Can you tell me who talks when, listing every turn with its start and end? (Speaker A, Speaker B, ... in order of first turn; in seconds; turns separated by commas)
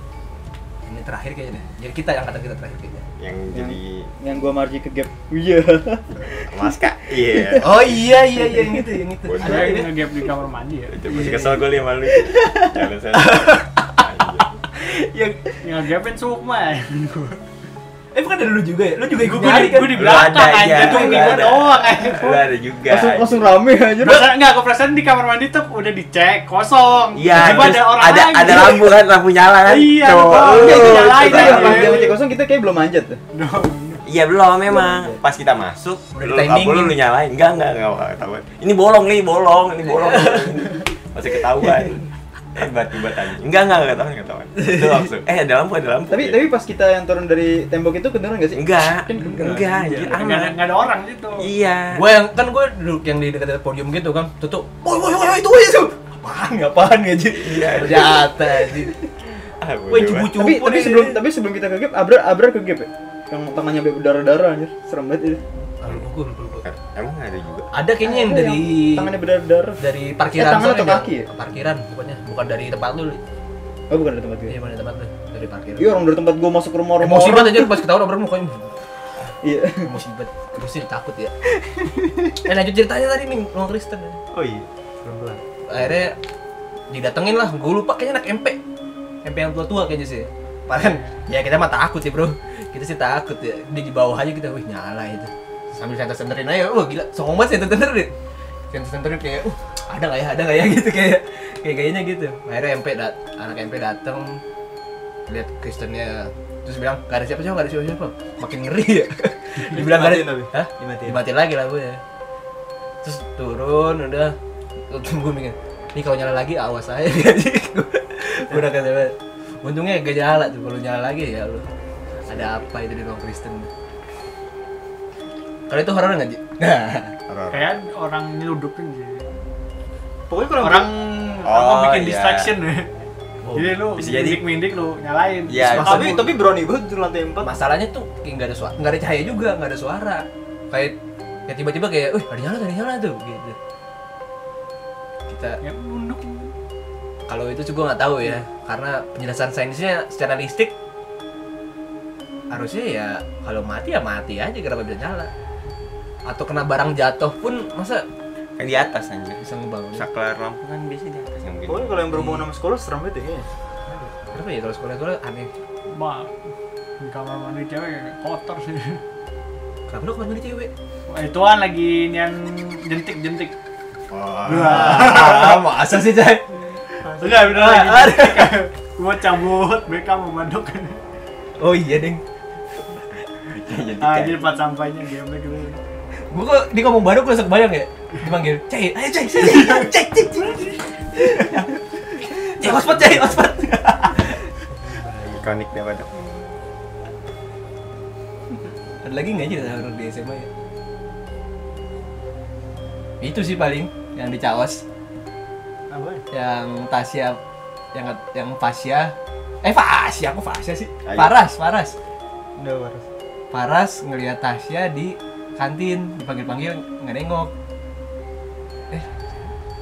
Speaker A: 0.8-3.0, Speaker B: 3.2-4.1, Speaker C: 3.5-6.6, Speaker B: 6.5-7.7, Speaker C: 7.2-7.7, Speaker A: 7.6-9.8, Speaker C: 8.4-8.8, Speaker B: 9.2-9.9, Speaker D: 9.4-11.6, Speaker B: 10.9-14.5, Speaker A: 13.1-14.0, Speaker D: 15.6-17.4, Speaker A: 18.1-20.2, Speaker D: 19.2-22.4, Speaker B: 19.7-23.5, Speaker C: 20.8-21.4, Speaker C: 22.9-24.3, Speaker D: 24.0-28.9, Speaker B: 27.1-32.0, Speaker D: 29.6-32.2, Speaker C: 30.4-33.2, Speaker D: 33.3-34.0, Speaker B: 34.0-42.0, Speaker C: 34.7-35.2, Speaker A: 36.1-37.0, Speaker A: 40.0-40.6, Speaker B: 42.5-46.5, Speaker A: 44.5-45.1, Speaker C: 46.1-50.2, Speaker B: 48.5-50.6, Speaker D: 49.4-51.5, Speaker B: 51.3-52.0, Speaker A: 51.9-58.9, Speaker B: 57.3-58.3, Speaker B: 59.6-60.3, Speaker A: 59.9-61.2, Speaker C: 60.3-65.4, Speaker A: 65.8-66.7, Speaker B: 66.6-67.7, Speaker A: 67.7-69.1, Speaker C: 68.0-69.8, Speaker A: 69.8-73.2, Speaker C: 70.3-71.3, Speaker C: 73.9-74.5, Speaker A: 74.5-75.9, Speaker C: 75.8-77.8, Speaker A: 77.0-78.7, Speaker C: 79.4-79.9, Speaker A: 79.8-81.3, Speaker C: 81.6-82.4, Speaker A: 82.4-84.2, Speaker C: 84.3-85.4, Speaker A: 85.7-86.2, Speaker A: 86.9-88.6, Speaker A: 89.2-98.1, Speaker D: 90.8-91.1, Speaker A: 98.7-104.4, Speaker A: 105.3-112.0, Speaker C: 109.6-111.2, Speaker A: 113.0-114.3, Speaker A: 114.9-121.7, Speaker A: 122.3-123.7, Speaker A: 125.7-127.1, Speaker B: 127.3-127.7, Speaker D: 127.5-129.3, Speaker C: 130.3-130.9, Speaker D: 130.6-132.9, Speaker B: 131.4-132.5, Speaker A: 133.4-133.8, Speaker D: 133.5-136.4, Speaker B: 133.9-134.4, Speaker B: 135.5-136.2, Speaker C: 135.8-137.5, Speaker A: 137.4-140.9, Speaker A: 141.5-143.6, Speaker A: 145.3-145.6, Speaker D: 145.6-146.5, Speaker A: 147.3-150.7, Speaker A: 152.5-155.3, Speaker A: 156.3-158.1, Speaker B: 158.6-162.1, Speaker A: 159.4-160.1, Speaker C: 161.7-163.5, Speaker A: 162.1-162.5, Speaker A: 163.9-165.5, Speaker D: 165.9-166.3, Speaker D: 167.0-169.0, Speaker A: 169.9-170.7, Speaker D: 171.1-173.5, Speaker B: 174.1-175.6, Speaker D: 174.4-175.6, Speaker A: 174.5-176.5, Speaker C: 177.0-178.0, Speaker D: 177.1-181.0, Speaker A: 177.5-178.6, Speaker A: 181.6-182.2, Speaker B: 183.4-184.5, Speaker D: 184.0-185.8, Speaker A: 186.3-191.7, Speaker C: 191.3-191.6, Speaker A: 192.2-194.4, Speaker C: 192.3-193.4, Speaker C: 194.7-195.4, Speaker B: 195.3-196.1, Speaker A: 199.0-200.5, Speaker A: 203.2-204.8, Speaker C: 205.9-206.2, Speaker A: 206.3-207.4, Speaker A: 207.9-211.9, Speaker B: 211.0-211.3, Speaker C: 212.6-213.1, Speaker A: 213.5-217.5